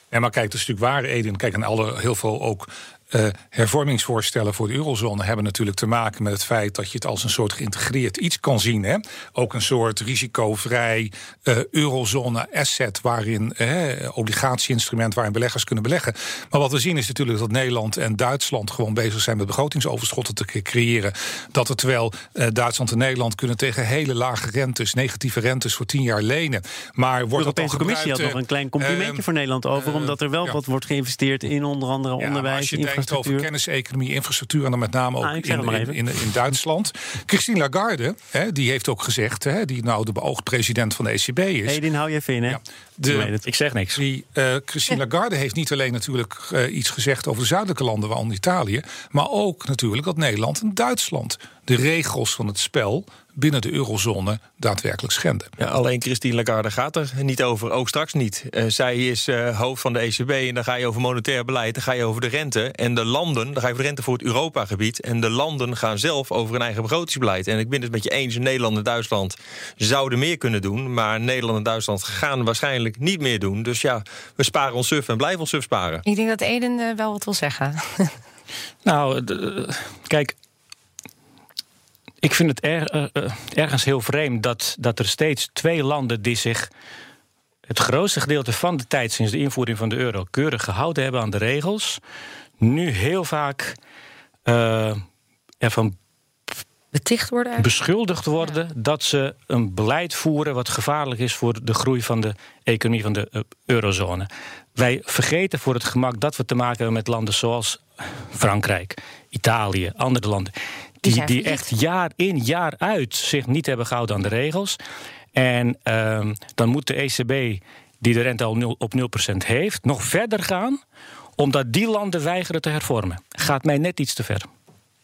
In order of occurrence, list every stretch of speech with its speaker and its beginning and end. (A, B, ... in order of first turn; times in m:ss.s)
0:00.1-0:29.2 A
0:27.4-0:33.5 B
0:29.8-0:30.6 A
0:32.2-0:41.8 A
0:35.2-0:36.0 B
0:41.7-0:43.4 B
0:42.5-0:43.3 A
0:43.4-0:44.0 C
0:44.0-0:55.5 A
0:55.6-1:16.0 D
1:16.1-1:18.1 E
1:18.8-1:20.3 C
1:22.2-1:26.7 C
1:27.7-1:32.0 C
1:32.6-1:33.8 C
1:34.5-1:35.0 C
1:35.6-1:36.0 C
1:36.9-1:37.7 E
1:37.6-1:54.8 C
1:51.0-1:51.7 E
1:55.3-2:00.8 C
2:01.4-2:04.5 C